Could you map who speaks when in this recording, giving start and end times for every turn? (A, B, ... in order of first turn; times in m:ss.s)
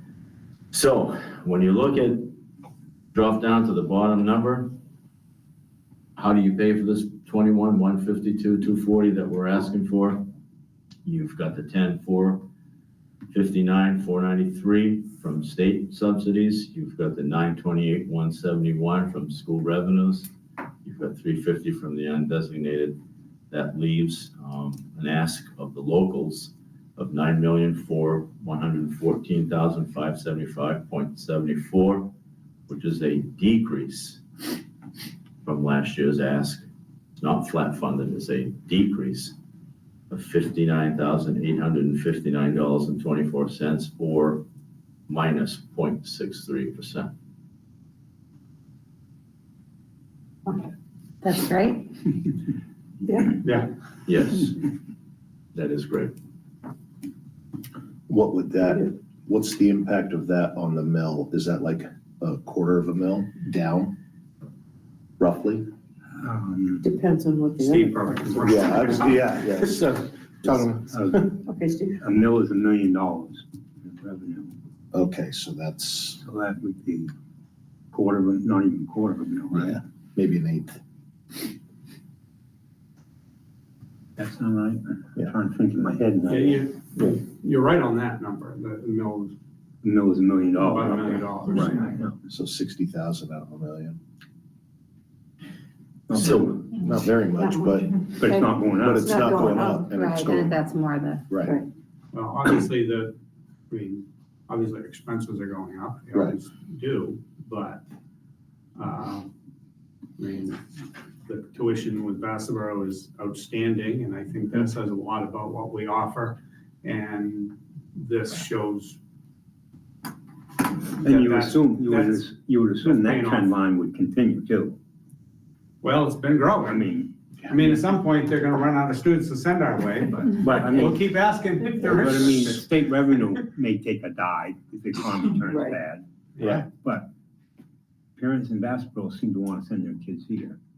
0:00.7-0:02.4 A
0:03.1-0:04.7 A
0:06.2-0:10.3 A
0:11.0-0:12.5 A
0:13.3-0:20.3 A
0:20.8-0:23.0 A
0:23.5-0:32.1 A
0:32.7-0:34.2 A
0:35.4-0:36.6 A
0:37.2-0:39.3 A
0:40.1-0:44.4 A
0:45.1-0:47.1 A
0:51.2-0:51.9 B
0:53.0-0:53.4 C
0:53.4-0:53.7 D
0:54.0-0:54.6 A
0:55.5-0:56.1 A
0:58.1-1:03.9 E
1:05.2-1:05.6 E
1:06.2-1:06.9 F
1:06.8-1:08.1 C
1:07.6-1:09.3 D
1:08.4-1:11.3 E
1:10.9-1:11.4 F
1:11.4-1:12.0 C
1:11.9-1:14.5 F
1:14.9-1:16.2 E
1:16.2-1:17.1 F
1:17.9-1:19.8 F
1:19.5-1:20.8 E
1:24.2-1:26.6 F
1:26.3-1:29.3 D
1:29.8-1:32.2 F
1:30.6-1:31.9 D
1:32.3-1:34.0 E
1:36.1-1:36.7 F
1:36.2-1:36.6 A
1:36.2-1:38.1 E
1:37.4-1:37.9 C
1:38.1-1:39.6 F
1:38.8-1:40.6 E
1:39.0-1:39.9 C
1:39.9-1:41.3 B
1:41.3-1:41.6 E
1:42.1-1:43.2 D
1:43.7-1:47.8 D
1:48.8-1:49.3 D
1:50.2-1:50.6 D
1:51.2-1:59.0 D
2:01.0-2:04.8 F
2:01.0-2:02.2 D
2:02.8-2:03.5 D
2:05.8-2:06.9 D
2:06.6-2:07.1 F
2:07.4-2:12.6 D
2:10.4-2:11.1 F
2:11.7-2:17.1 F
2:15.5-2:15.8 C
2:16.4-2:16.6 D
2:18.2-2:20.6 F